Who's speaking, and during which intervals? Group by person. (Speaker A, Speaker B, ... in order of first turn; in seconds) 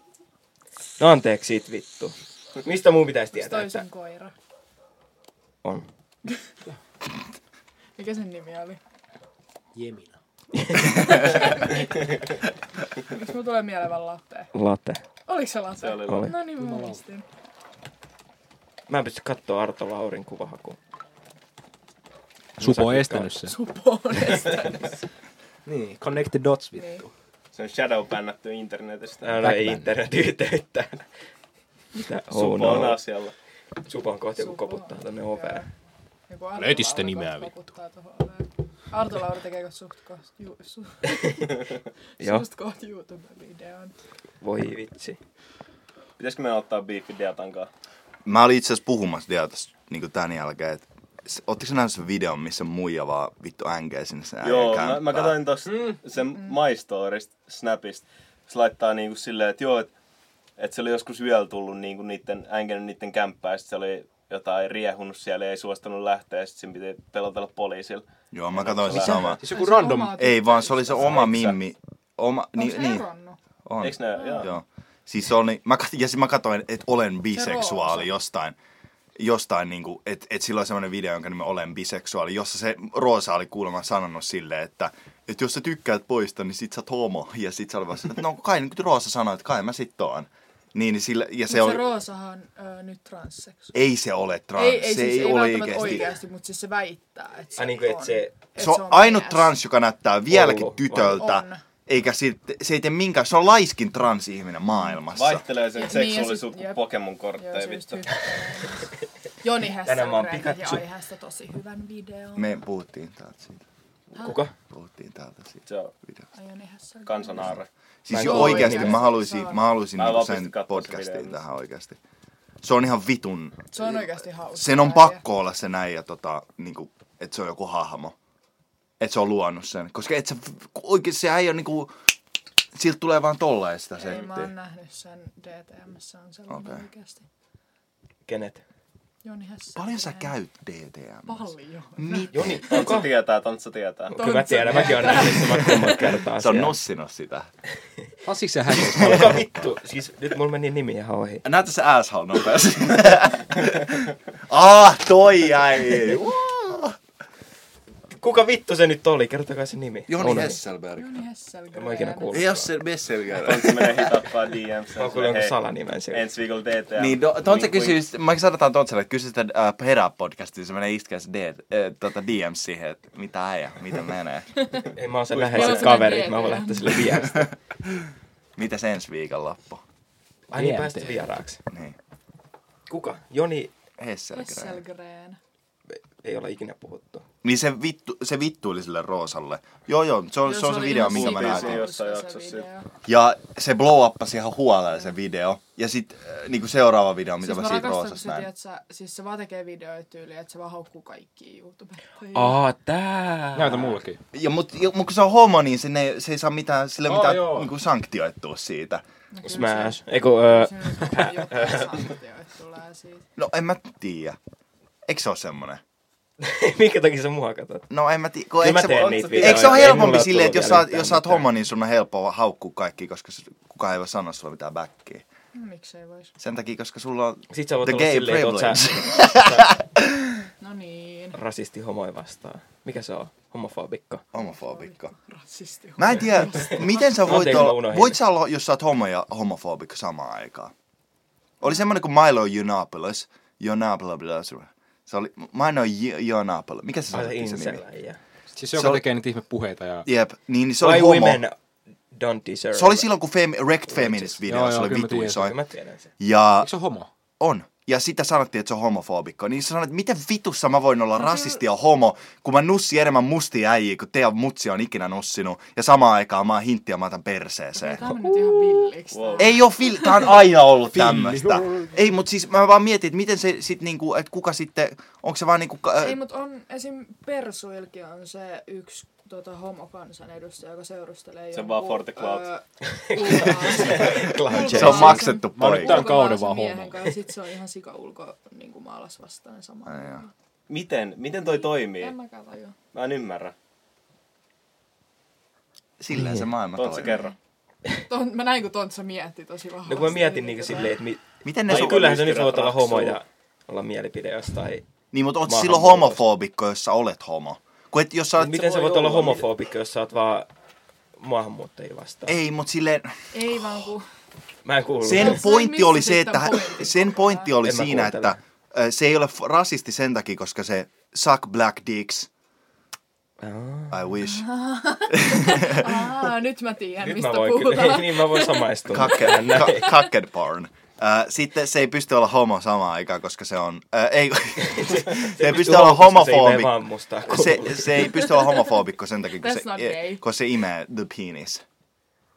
Speaker A: 1.0-3.8, 10.5-11.3, 14.5-15.0, 16.0-16.4, 18.9-20.8, 22.6-23.4, 29.2-31.1, 31.9-33.0, 33.9-35.6, 41.1-41.5, 42.2-42.5, 44.4-45.2, 97.5-98.3, 100.3-101.2, 109.8-110.8, 114.2-114.5, 118.1-119.1, 138.3-138.6, 142.3-143.1, 144.1-146.8, 148.7-151.4, 158.1-160.6, 161.7-162.7, 164.9-166.3, 174.9-177.5, 180.5-181.6, 182.9-183.7, 185.9-187.2, 202.3-204.0, 209.4-212.1, 216.4-217.9, 218.6-221.5, 227.5-229.7, 231.3-234.2, 237.0-238.2, 247.1-248.2, 250.8-251.6, 252.1-253.1, 253.9-254.3, 255.3-256.1, 282.9-285.3, 299.8-304.9, 305.4-306.2, 308.4-310.5, 311.2-312.4, 314.6-315.5, 317.6-318.4, 323.4-324.1, 327.0-329.9, 334.6-338.2
Speaker B: 3.3-4.3, 8.0-8.8, 10.8-12.2, 13.0-14.5, 15.2-17.2, 23.5-24.9, 26.7-27.0, 34.4-35.7, 36.3-43.9, 69.5-71.4, 72.5-73.4, 74.1-74.5, 77.3-78.1, 91.5-93.8, 94.5-99.5, 101.0-101.6, 105.7-106.8, 107.4-112.5, 116.3-117.5, 118.1-119.6, 123.7-125.2, 134.0-137.2, 139.2-140.3, 141.2-142.3, 144.1-146.1, 160.9-162.6, 175.5-177.4, 184.3-185.4, 190.4-192.9, 197.4-202.6, 209.3-213.2, 225.5-226.3, 230.6-231.4, 234.3-237.4, 267.8-270.4, 276.0-290.3, 291.4-292.7, 298.1-300.9, 313.3-314.0, 315.1-317.5, 324.2-329.7, 339.4-340.2
Speaker C: 9.7-10.2, 16.4-17.0, 22.6-23.5, 25.6-27.1, 29.4-29.9, 36.5-37.5, 69.1-70.2, 148.2-149.7, 180.5-181.3, 203.5-204.2, 207.0-207.7, 248.6-250.1, 254.4-255.5, 256.6-257.1, 270.9-272.0, 285.5-287.1
Speaker D: 15.8-16.3, 27.5-29.3, 32.3-33.3, 46.2-47.7, 54.4-59.9, 60.6-69.4, 70.9-71.6, 73.8-74.5, 105.1-108.2, 115.7-115.9, 117.0-117.7, 120.0-121.4, 142.7-144.2, 163.3-165.5, 166.1-168.0, 175.3-176.4, 190.8-192.7, 218.8-220.2, 269.1-269.6, 281.5-282.5, 290.7-292.1, 292.9-293.5, 296.8-297.3, 301.7-303.2
Speaker E: 48.2-55.4, 68.3-69.4, 70.2-73.0, 73.7-78.5, 79.2-91.8, 93.7-96.1, 98.6-105.4, 112.3-113.6, 114.7-116.2, 117.4-122.0, 122.6-128.1, 129.0-131.9, 132.7-134.5, 136.5-136.8, 139.8-142.6, 146.3-147.5, 148.9-149.4, 151.4-157.0, 160.1-161.1, 162.3-164.2, 166.9-174.5, 177.8-179.8, 181.7-181.9, 184.0-184.8, 187.4-191.8, 193.0-198.5, 204.3-209.0, 213.4-214.4, 215.1-215.8, 217.9-225.2, 226.4-230.4, 234.3-235.1, 236.0-240.7, 241.6-247.8, 248.7-249.0, 250.1-251.4, 252.7-255.5, 256.2-256.7, 257.4-268.1, 269.4-276.2, 283.9-286.1, 289.9-290.2, 296.0-297.2, 301.4-302.1, 305.1-309.4, 312.3-313.8, 315.0-322.3, 323.9-324.5, 325.1-326.1, 328.9-341.6